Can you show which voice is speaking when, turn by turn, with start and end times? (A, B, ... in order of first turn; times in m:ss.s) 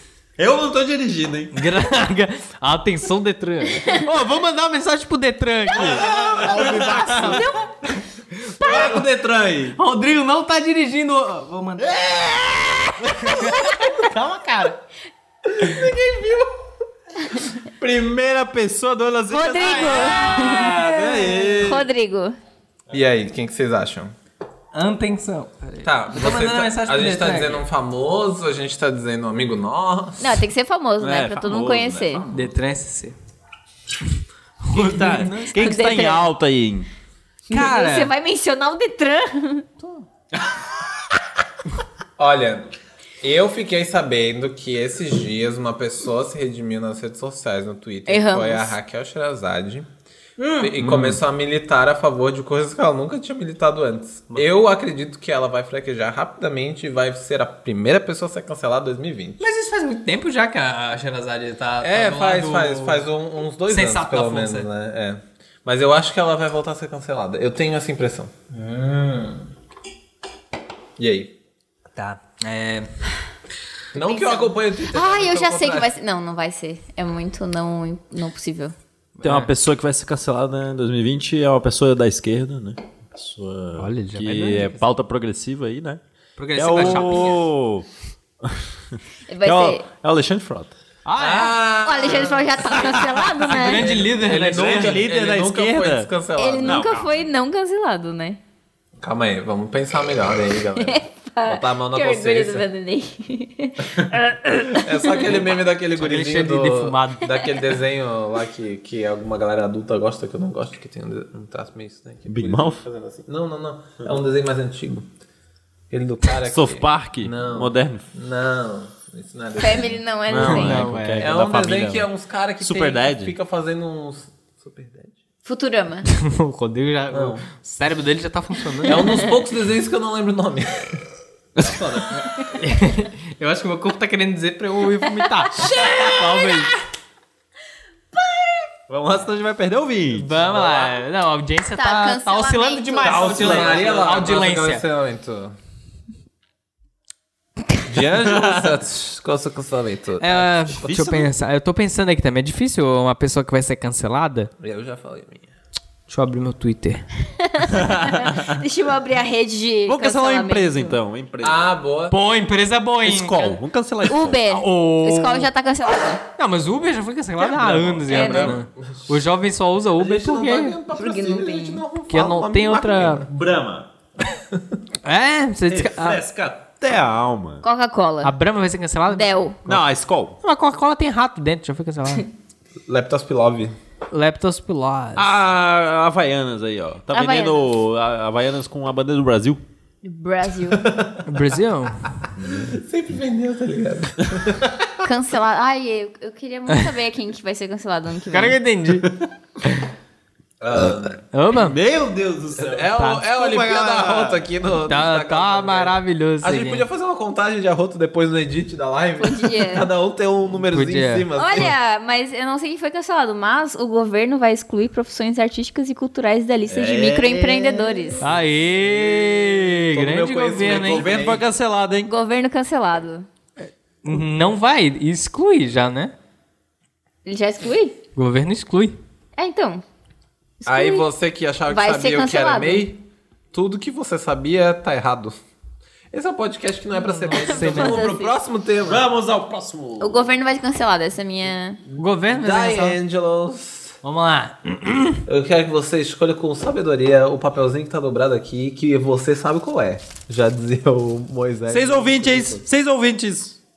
0:00.4-0:01.6 A
0:01.5-0:07.6 B
0:05.7-0:07.5 A
0:06.4-0:06.6 C
0:07.2-0:07.6 D
0:08.4-0:09.0 B
0:08.6-0:09.8 A
0:09.8-0:12.1 B
0:11.8-0:13.6 A
0:13.2-0:14.8 B
0:17.8-0:21.9 A
0:19.3-0:22.4 D
0:19.9-0:20.6 B
0:22.9-0:24.1 C
0:24.7-0:27.6 B
0:25.8-0:30.4 C
0:30.2-0:32.3 D
0:31.0-0:32.5 A
0:32.3-0:33.2 B
0:34.6-0:35.7 B
0:34.7-0:36.9 A
0:35.5-0:36.3 D
0:37.5-0:39.7 D
0:37.5-0:38.1 B
0:42.2-0:49.9 C
0:48.1-0:48.7 D
0:50.4-0:50.8 B
0:50.6-0:59.4 C
0:50.8-0:51.2 A
0:59.4-1:03.0 B
1:01.8-1:09.4 C
1:03.7-1:04.7 B
1:11.0-1:11.3 C
1:11.9-1:12.9 B
1:13.9-1:15.9 C
1:14.0-1:18.7 D
1:19.2-1:19.5 B
1:19.2-1:26.0 A
1:23.8-1:24.8 B
1:26.4-1:27.4 B
1:26.5-1:27.9 A
1:26.8-1:27.0 C
1:28.4-1:30.8 A
1:29.3-1:29.8 D
1:31.0-1:31.6 B
1:31.2-1:33.0 C
1:31.8-1:33.8 D
1:33.5-1:35.0 B
1:33.5-1:36.9 C
1:34.2-1:37.0 A
1:36.4-1:38.4 D
1:39.0-1:42.6 C
1:40.8-1:45.1 D
1:44.7-1:55.1 C
1:45.9-1:47.4 B
1:52.3-1:52.8 A
1:55.9-2:00.0 C
1:56.4-1:58.0 A
1:59.6-2:00.9 D
2:00.3-2:02.1 A
2:00.4-2:01.3 B
2:01.2-2:05.1 C
2:02.6-2:03.4 A
2:05.4-2:06.1 D
2:06.1-2:09.3 B
2:07.1-2:07.4 A
2:08.8-2:11.0 C
2:11.6-2:12.1 A
2:12.6-2:16.7 B
2:15.6-2:16.2 D
2:15.8-2:16.0 A
2:18.9-2:20.4 A
2:20.1-2:24.8 B
2:20.4-2:21.0 C
2:21.8-2:23.7 D
2:23.0-2:25.5 C
2:23.1-2:23.8 A
2:27.8-2:30.4 C
2:28.2-2:28.7 A
2:30.2-2:34.5 B
2:30.8-2:31.3 A
2:34.6-2:35.5 C
2:36.1-2:37.0 B
2:37.4-2:41.0 D
2:37.7-2:38.6 A
2:39.8-2:41.7 A
2:41.4-2:42.2 C
2:42.1-2:43.6 B
2:43.0-2:44.6 A
2:44.1-2:46.2 D
2:44.6-2:45.5 B
2:46.4-2:50.8 B
2:47.4-2:48.3 A
2:48.0-2:49.0 C
2:48.1-2:48.6 D
2:50.0-2:53.3 C
2:50.9-2:51.8 D
2:52.1-2:53.3 B
2:53.2-2:53.9 A
2:55.0-2:56.2 B
2:55.7-2:57.6 A
2:57.6-2:58.3 D
2:58.2-2:59.8 B
2:59.1-2:59.6 D
2:59.6-3:00.4 A
3:00.4-3:02.2 B
3:02.9-3:03.7 C
3:04.1-3:05.4 B
3:05.2-3:09.6 A
3:07.1-3:07.6 D
3:10.0-3:10.8 D
3:10.7-3:11.2 C
3:11.2-3:12.2 B
3:12.5-3:14.8 C
3:15.0-3:18.6 D
3:18.3-3:19.1 B
3:20.6-3:21.2 C
3:20.8-3:24.4 A
3:21.3-3:21.8 B
3:22.6-3:31.7 C
3:23.0-3:23.2 B
3:24.8-3:26.8 B
3:29.2-3:29.9 D
3:30.6-3:31.3 B
3:31.3-3:38.2 D
3:36.7-3:38.4 A
3:38.2-3:41.1 B
3:38.8-3:41.4 C
3:40.6-3:42.1 A
3:42.0-3:43.3 D
3:44.0-3:46.1 B
3:47.2-3:48.0 D
3:48.2-3:49.0 B
3:49.4-3:49.8 D
3:50.6-3:51.1 D
3:50.6-3:53.0 C
3:51.7-3:52.9 D
3:53.5-3:55.4 C
3:56.1-3:59.0 C
3:57.0-3:58.1 B
3:57.3-3:58.4 D
3:58.8-4:00.3 A
4:00.0-4:01.8 D
4:01.9-4:03.0 B
4:02.3-4:04.0 C
4:04.0-4:05.2 B
4:05.2-4:12.6 C
4:11.7-4:13.6 A